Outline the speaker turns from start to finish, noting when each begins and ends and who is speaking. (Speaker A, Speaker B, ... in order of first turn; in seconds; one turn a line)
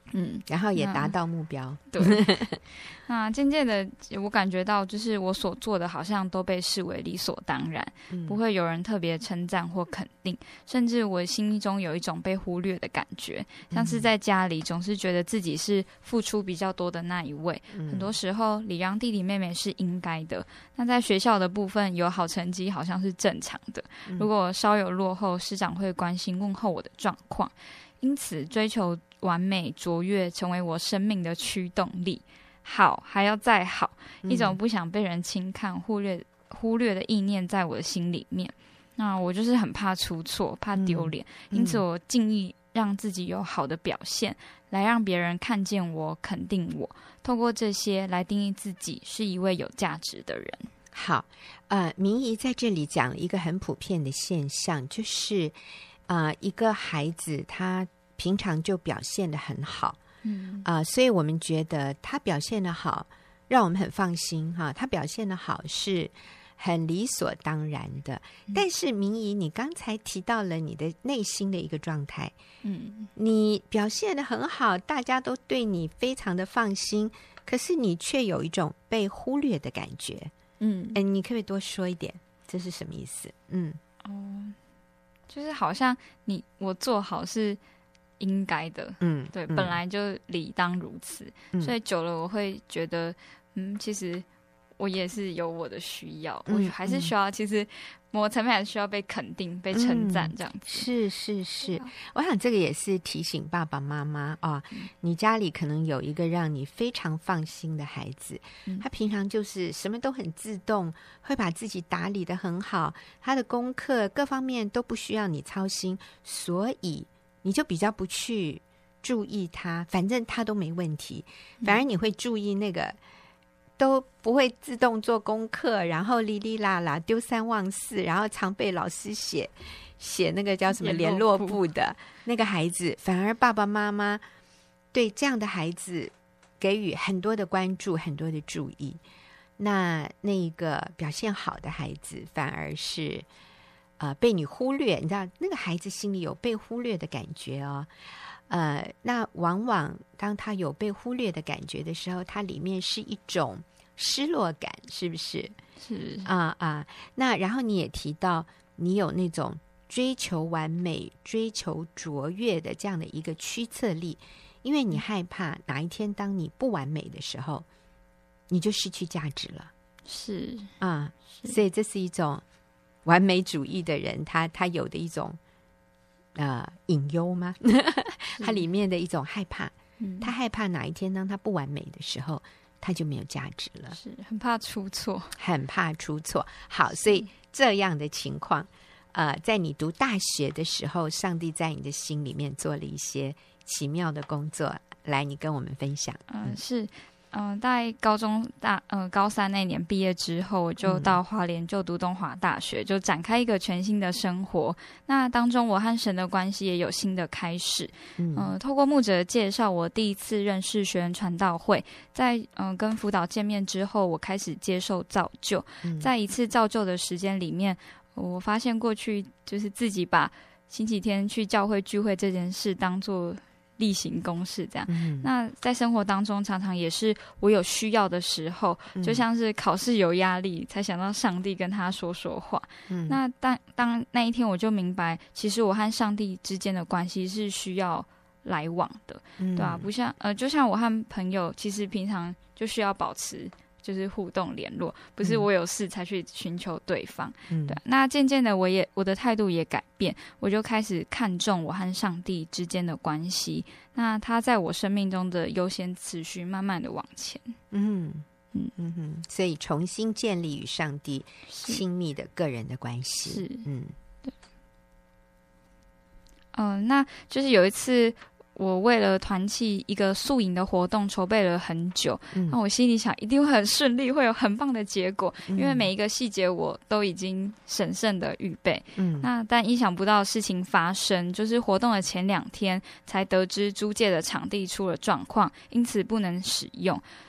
Speaker A: 0.1-1.1
Speaker B: 0.5-2.6
Speaker A: 1.9-2.2
Speaker A: 2.8-50.7
Speaker B: 8.1-8.4
Speaker B: 13.7-14.1
Speaker B: 17.7-18.1
Speaker B: 34.2-34.6
Speaker B: 40.7-41.8
Speaker B: 50.9-60.0
Speaker A: 60.2-60.6
Speaker B: 60.6-72.3
Speaker A: 72.6-73.1
Speaker B: 73.1-80.3
Speaker A: 80.6-81.0
Speaker B: 80.9-83.8
Speaker A: 84.0-84.6
Speaker A: 85.3-87.6
Speaker A: 88.2-94.2
Speaker B: 89.0-89.8
Speaker A: 94.8-100.9
Speaker B: 96.5-97.1
Speaker B: 99.7-123.0
Speaker A: 101.7-101.9
Speaker B: 123.8-134.2
Speaker A: 130.7-131.6
Speaker B: 134.9-139.0
Speaker B: 139.6-143.2
Speaker B: 144.0-155.6
Speaker A: 155.8-156.3
Speaker B: 156.2-167.7
Speaker B: 168.5-169.7
Speaker A: 170.0-170.7
Speaker B: 170.8-172.4
Speaker B: 173.0-175.4
Speaker B: 176.3-184.0
Speaker A: 178.4-178.6
Speaker A: 180.0-180.3
Speaker A: 183.9-185.3
Speaker B: 185.4-196.6
Speaker A: 196.3-257.6
Speaker B: 200.8-201.2
Speaker B: 208.2-208.5
Speaker B: 215.8-216.1
Speaker B: 224.9-225.3
Speaker B: 228.9-229.2
Speaker B: 232.9-233.2
Speaker B: 239.4-239.9
Speaker B: 247.5-247.8
Speaker B: 257.7-263.9
Speaker A: 261.5-261.8
Speaker A: 263.3-263.6
Speaker A: 266.5-287.0
Speaker B: 272.3-272.6
Speaker B: 275.5-275.9
Speaker B: 278.9-279.3